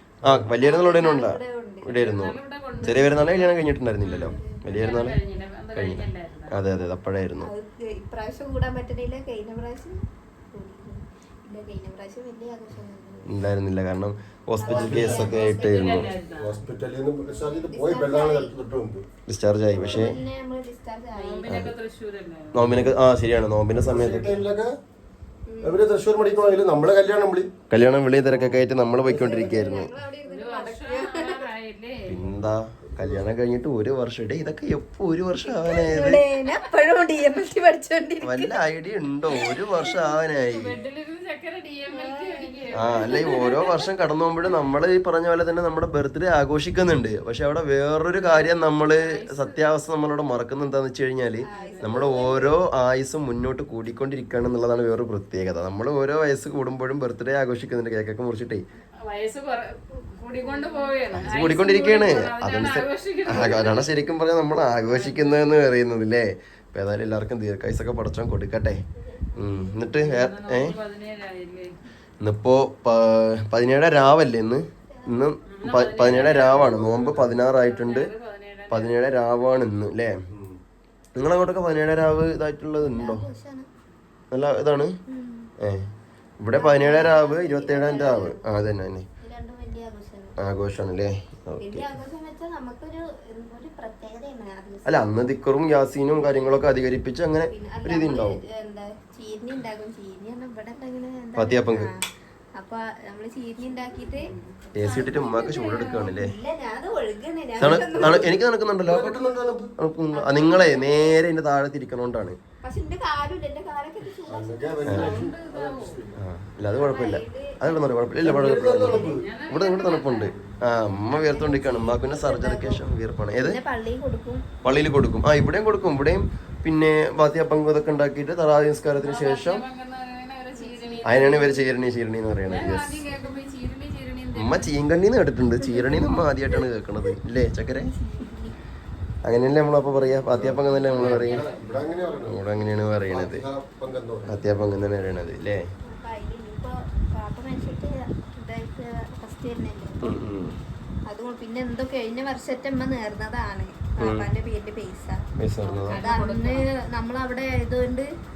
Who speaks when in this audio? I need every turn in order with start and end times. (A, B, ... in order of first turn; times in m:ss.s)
0:00.2-0:00.5 A
0:00.2-0:05.2 B
0:00.6-0:02.0 C
0:02.0-0:03.5 D
0:02.8-0:03.2 C
0:04.0-0:06.6 D
0:04.1-0:04.9 C
0:05.7-0:07.5 B
0:07.4-0:10.0 C
0:10.5-0:13.3 C
0:13.2-0:16.1 B
0:14.6-0:16.2 C
0:14.6-0:15.4 A
0:15.4-0:16.6 D
0:16.4-0:19.0 A
0:17.3-0:18.5 C
0:19.3-0:20.1 B
0:19.7-0:20.1 A
0:19.8-0:21.5 C
0:21.1-0:22.6 D
0:21.4-0:21.7 B
0:22.5-0:24.4 B
0:23.8-0:24.8 A
0:25.5-0:26.9 C
0:25.6-0:27.5 A
0:27.7-0:29.9 B
0:28.3-0:29.7 A
0:29.0-0:31.5 C
0:30.2-0:32.2 D
0:32.1-0:36.2 B
0:32.9-0:33.3 A
0:35.4-0:38.6 C
0:38.2-0:40.7 B
0:40.5-0:43.6 D
0:41.9-0:43.8 C
0:42.7-0:58.6 B
0:48.3-0:49.6 D
0:51.4-0:52.6 C
0:51.5-0:52.0 D
0:59.0-1:03.9 D
1:00.3-1:01.3 C
1:01.1-1:08.8 B
1:04.9-1:05.5 D
1:09.0-1:10.0 C
1:09.4-1:10.8 B
1:09.9-1:11.7 D
1:12.2-1:18.1 B
1:14.9-1:15.3 C
1:15.5-1:16.7 D
1:16.0-1:17.4 A
1:17.5-1:18.9 D
1:18.7-1:20.2 B
1:20.3-1:20.6 A
1:21.2-1:23.2 B
1:22.8-1:23.7 C
1:24.3-1:25.0 B
1:25.1-1:25.5 C
1:25.6-1:25.9 B
1:26.4-1:29.0 B
1:26.5-1:28.5 C
1:29.2-1:30.4 C
1:30.4-1:31.9 B
1:31.6-1:35.2 C
1:34.8-1:38.4 B
1:37.5-1:42.0 C
1:41.4-1:41.9 B
1:42.6-1:44.3 C
1:44.3-1:46.1 D
1:44.8-1:46.3 B
1:46.0-1:48.3 C
1:47.6-1:49.2 B
1:47.8-1:49.7 A
1:49.8-1:52.4 B
1:50.1-1:51.2 C
1:52.6-1:55.2 C
1:54.3-1:56.2 A
1:54.9-1:55.2 B
1:54.9-1:56.0 D
1:56.2-2:03.6 B
1:56.7-1:58.0 C
1:58.2-1:59.2 A
1:58.7-1:59.1 C
1:59.0-2:00.4 D
2:01.1-2:02.8 C
2:03.4-2:04.5 C
2:04.6-2:09.6 B
2:09.0-2:11.5 D
2:10.5-2:11.7 C
2:11.0-2:13.0 B
2:12.5-2:14.8 D
2:13.1-2:13.6 C
2:14.4-2:17.9 B
2:15.8-2:16.0 C
2:17.7-2:18.6 C
2:19.2-2:21.5 B
2:20.3-2:22.4 A
2:20.7-2:22.3 D
2:22.3-2:23.4 B
2:23.0-2:24.3 A
2:24.3-2:25.6 B
2:25.8-2:30.2 C
2:30.0-2:30.6 B
2:31.1-2:35.2 C
2:34.0-2:34.3 B
2:35.4-2:36.0 B
2:35.6-2:36.7 D
2:35.9-2:38.1 C